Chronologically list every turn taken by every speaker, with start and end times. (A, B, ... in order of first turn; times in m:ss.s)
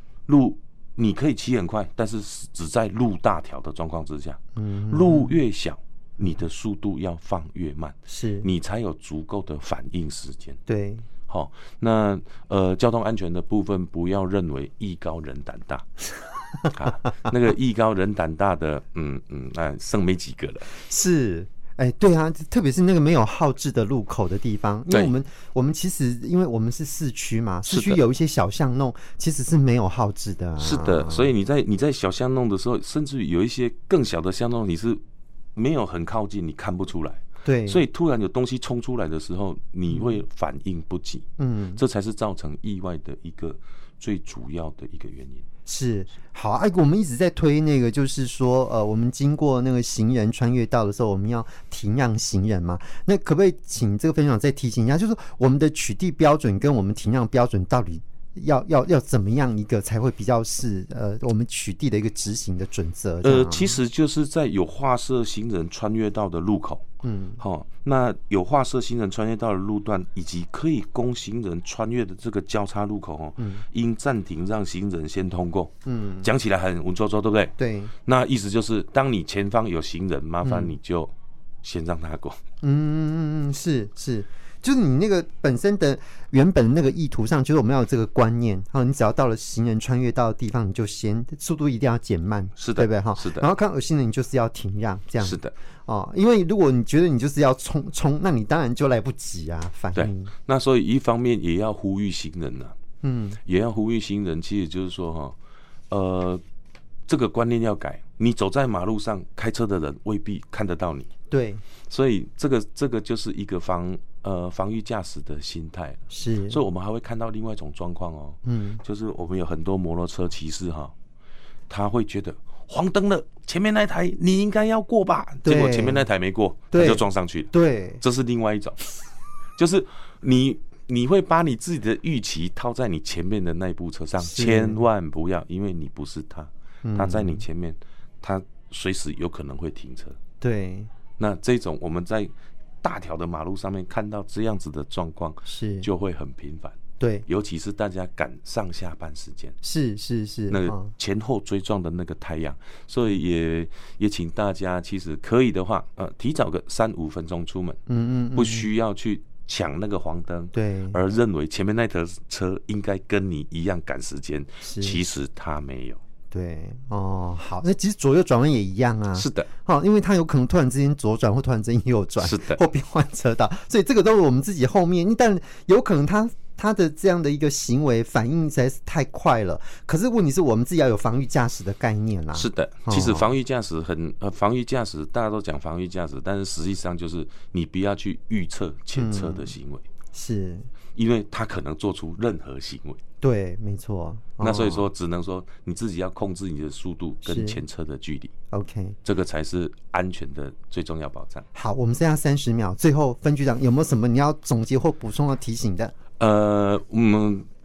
0:00.3-0:10.6 A
0:04.6-0:05.4 B
0:08.1-0:08.5 B
0:10.7-0:11.1 B
0:11.3-0:15.9 A
0:16.7-0:20.7 A
0:20.8-0:31.3 B
0:27.7-0:28.0 A
0:30.6-0:35.0 A
0:35.6-0:41.2 A
0:37.4-0:37.8 B
0:39.9-0:40.2 B
0:41.4-0:41.8 B
0:41.8-0:45.5 A
0:45.7-1:03.8 B
1:03.2-1:06.8 A
1:07.0-1:07.4 B
1:07.4-1:17.5 A
1:13.4-1:13.6 B
1:15.9-1:16.3 B
1:17.6-1:17.9 B
1:18.1-1:22.4 A
1:20.4-1:20.8 B
1:22.6-1:40.3 B
1:32.6-1:33.5 A
1:35.2-1:35.5 A
1:40.0-1:42.8 A
1:43.0-1:43.4 B
1:43.5-1:45.4 A
1:45.9-1:46.4 A
1:47.1-1:51.1 A
1:51.3-1:51.6 B
1:51.9-2:00.9 A
1:56.1-1:56.6 B
1:58.4-1:58.8 B
2:01.7-2:08.8 A
2:05.4-2:06.0 B
2:06.7-2:08.0 B
2:09.6-2:20.2 A
2:14.2-2:14.8 B
2:16.8-2:17.4 B
2:20.4-2:20.9 B
2:21.2-2:29.6 A
2:25.5-2:25.9 B
2:27.0-2:27.3 B
2:29.6-2:30.9 B
2:30.5-2:37.8 A
2:37.9-2:38.7 B
2:38.3-2:46.0 A
2:40.5-2:41.0 B
2:44.6-2:45.0 B
2:46.3-3:03.3 B
2:49.2-2:49.5 A
2:52.2-2:52.6 A
3:02.3-3:09.8 A
3:09.0-3:09.6 B
3:10.1-3:10.7 B
3:11.0-3:13.0 A
3:13.2-3:14.9 B
3:14.4-3:18.3 A
3:17.2-3:17.6 B
3:18.5-3:19.0 B
3:19.0-3:21.5 A
3:21.6-3:25.9 B
3:26.2-3:27.5 A